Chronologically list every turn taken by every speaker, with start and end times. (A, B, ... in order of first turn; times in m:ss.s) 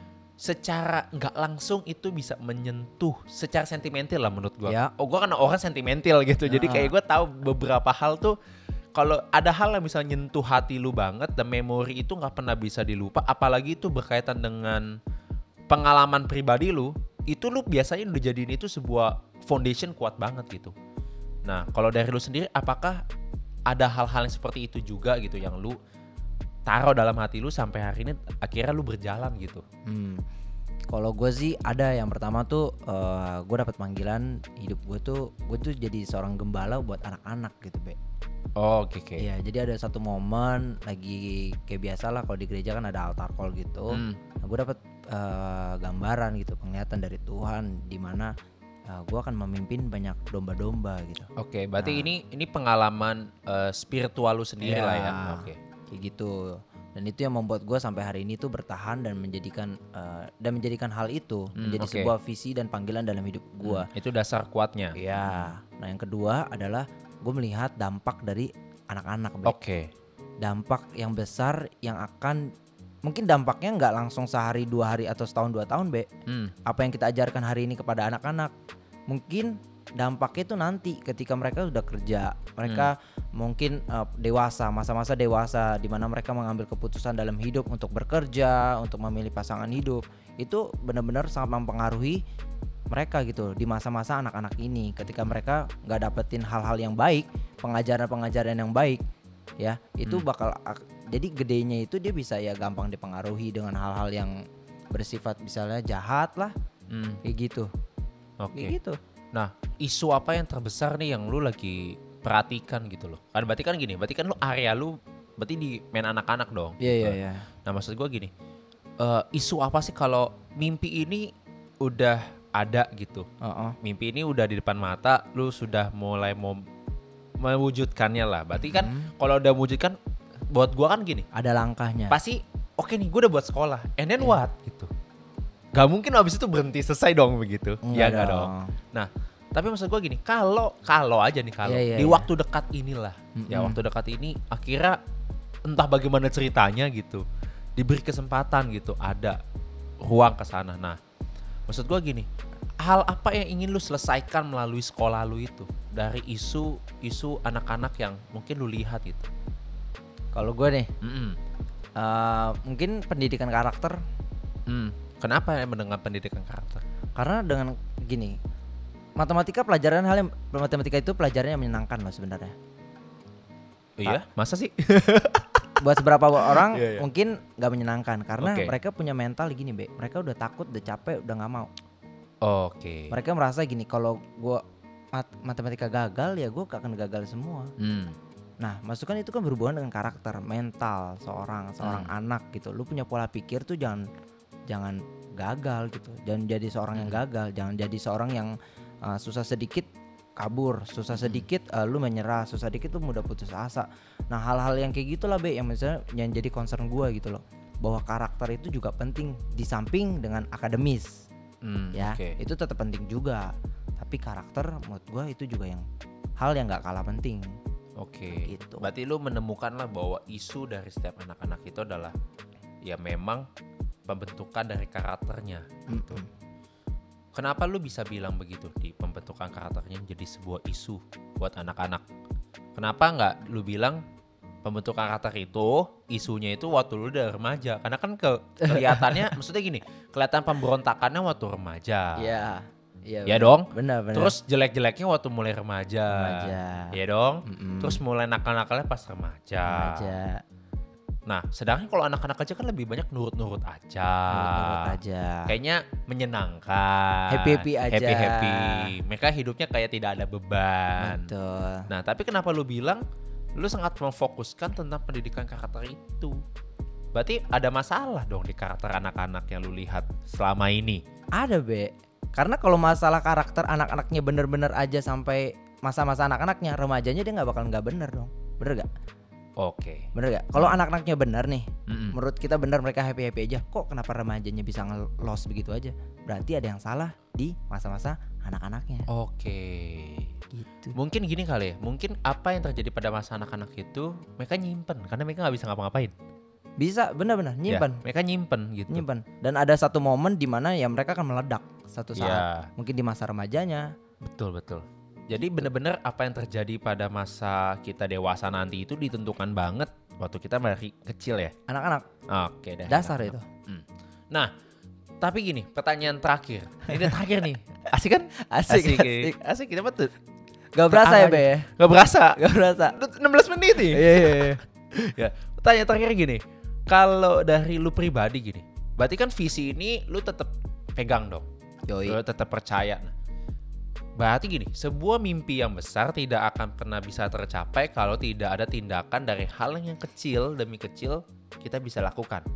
0:00.4-0:08.4 A
0:04.7-0:04.9 B
0:06.5-0:06.9 B
0:09.0-0:14.9 A
0:15.7-0:20.7 A
0:21.5-0:23.0 A
0:23.7-0:25.8 A
0:26.7-0:29.6 A
0:29.9-0:30.2 B
0:30.9-0:38.0 B
0:38.6-0:39.3 A
0:39.2-0:48.3 B
0:43.9-0:44.2 A
0:48.9-0:51.3 B
0:51.4-0:55.6 A
0:51.8-0:52.1 B
0:54.6-1:03.9 B
1:01.6-1:02.1 A
1:03.6-1:05.5 A
1:05.0-1:09.6 B
1:09.5-1:09.9 A
1:10.4-1:12.5 B
1:13.0-1:16.1 B
1:16.3-1:16.5 A
1:16.7-1:18.5 B
1:19.1-1:32.2 B
1:32.9-1:39.0 B
1:39.6-1:44.4 B
1:44.9-1:46.5 B
1:46.9-1:47.2 A
1:47.2-1:47.7 B
1:48.4-1:48.8 A
1:48.6-1:49.0 B
1:49.3-1:58.3 A
1:56.8-1:57.5 B
1:59.0-2:01.3 A
2:01.8-2:03.3 A
2:03.4-2:03.8 B
2:03.8-2:06.6 A
2:07.4-2:10.0 A
2:08.6-2:09.1 B
2:10.5-2:11.3 A
2:11.3-2:12.2 B
2:12.1-2:14.9 A
2:15.8-2:25.0 A
2:17.8-2:18.8 B
2:21.6-2:22.3 B
2:23.4-2:23.8 B
2:25.7-2:27.2 A
2:27.8-2:29.4 A
2:30.0-2:31.0 A
2:31.7-2:32.3 A
2:32.8-2:39.3 A
2:40.3-2:40.9 B
2:41.0-2:41.4 A
2:42.0-2:44.0 B
2:44.7-2:46.8 A
2:47.2-2:48.4 B
2:49.2-2:52.5 B
2:54.0-2:55.8 A
2:55.8-3:01.7 B
2:56.4-2:57.0 A
2:58.4-2:58.7 A
3:02.4-3:03.2 A
3:03.1-3:04.6 B
3:05.1-3:07.7 B
3:07.8-3:08.2 A
3:08.6-3:14.0 B
3:11.8-3:12.1 A
3:14.7-3:18.5 B
3:19.1-3:31.2 B
3:21.2-3:21.5 A
3:31.6-3:32.4 A
3:31.9-3:35.8 B
3:36.4-3:37.6 B
3:38.0-3:42.2 A
3:38.3-3:38.8 B
3:42.8-3:43.5 A
3:44.1-3:46.2 A
3:45.9-3:46.3 B
3:47.4-3:52.0 A
3:52.8-3:54.0 A
3:54.6-4:02.4 A
3:58.6-3:59.4 B
4:02.2-4:04.4 B
4:03.3-4:10.1 A
4:06.1-4:07.0 B
4:07.5-4:08.0 B
4:09.7-4:10.4 B
4:11.3-4:15.0 A
4:14.3-4:15.5 B
4:15.5-4:21.3 A
4:17.3-4:18.9 B
4:21.0-4:21.8 B
4:21.9-4:23.0 A
4:23.6-4:26.4 A
4:27.1-4:31.0 A
4:31.4-4:38.9 B
4:39.6-4:40.8 A
4:40.2-4:49.1 B
4:41.9-4:42.2 A
4:49.1-4:50.3 A
4:50.5-4:51.0 B
4:50.9-4:56.2 A
4:56.8-4:58.0 B
4:57.7-4:59.0 A
4:58.9-5:03.9 B
5:02.2-5:02.7 A
5:04.2-5:11.5 A
5:11.7-5:12.1 B
5:12.3-5:14.5 A
5:12.9-5:13.4 B
5:15.2-5:20.1 A
5:16.9-5:17.2 B
5:18.4-5:19.4 B
5:20.8-5:21.7 B
5:20.9-5:22.4 A
5:22.4-5:23.0 B
5:22.9-5:31.5 A
5:23.7-5:24.6 B
5:31.9-5:32.2 B
5:32.0-5:33.1 A
5:34.2-5:42.5 A